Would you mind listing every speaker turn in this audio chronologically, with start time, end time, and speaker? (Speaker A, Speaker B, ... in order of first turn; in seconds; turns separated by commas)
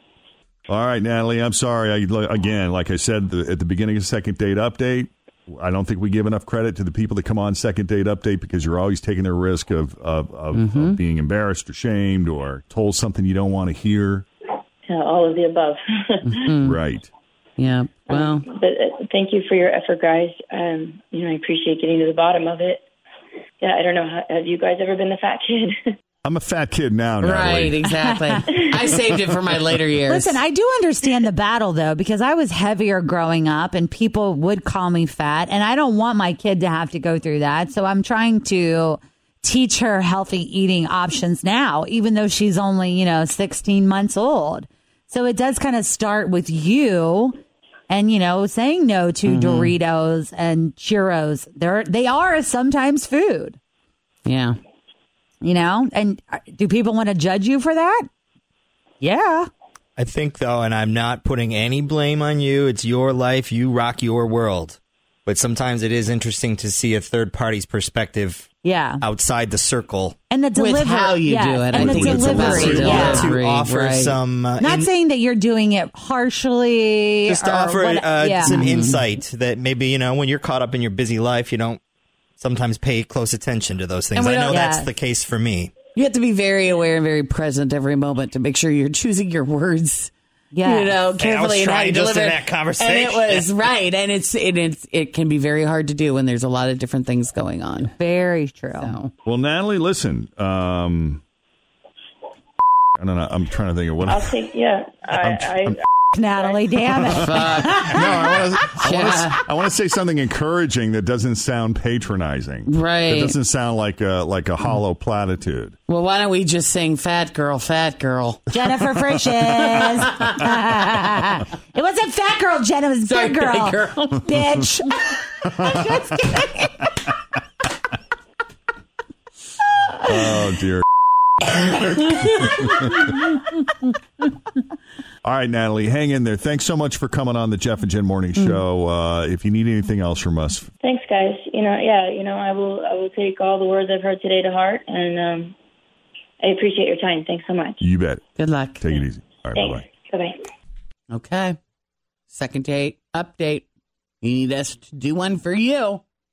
Speaker A: 0.7-14.2, Speaker B: 10.5-11.0, Speaker C: 14.9-16.4, Speaker B: 16.2-16.8, Speaker A: 16.6-17.1, Speaker B: 17.6-18.5, Speaker C: 18.1-22.8, Speaker C: 23.6-25.8, Speaker A: 26.2-27.8, Speaker B: 27.2-30.4, Speaker D: 27.9-29.0, Speaker D: 30.1-47.4, Speaker D: 47.9-53.6, Speaker B: 49.2-49.8, Speaker B: 54.3-54.6, Speaker D: 55.4-58.1, Speaker D: 59.0-59.5, Speaker E: 60.0-68.5, Speaker D: 68.6-69.0, Speaker E: 69.0-70.2, Speaker D: 70.3-73.3, Speaker B: 70.5-74.2, Speaker A: 71.8-73.3, Speaker E: 71.8-74.9, Speaker D: 74.6-78.7, Speaker E: 77.3-81.8, Speaker B: 78.4-79.0, Speaker E: 82.4-85.7, Speaker B: 84.1-84.6, Speaker D: 84.5-84.9, Speaker B: 86.0-98.0, Speaker D: 90.5-91.1, Speaker E: 91.2-93.5, Speaker D: 98.0-99.0, Speaker B: 98.8-99.1, Speaker A: 99.2-101.2, Speaker A: 103.0-104.3, Speaker C: 104.1-105.8, Speaker A: 105.2-105.8, Speaker D: 106.1-108.4, Speaker A: 107.0-115.8, Speaker B: 107.2-107.8, Speaker B: 108.8-109.4, Speaker B: 112.7-113.4, Speaker B: 115.9-120.4, Speaker D: 118.5-124.9, Speaker B: 123.0-124.3, Speaker D: 125.5-126.5, Speaker A: 130.1-130.8, Speaker B: 132.0-132.8, Speaker A: 135.2-140.7, Speaker C: 140.8-145.6, Speaker C: 146.4-147.8, Speaker A: 147.8-148.2, Speaker B: 148.4-148.9, Speaker A: 148.8-149.9, Speaker C: 149.6-150.4, Speaker B: 151.1-151.6, Speaker B: 152.3-153.7, Speaker B: 154.2-156.0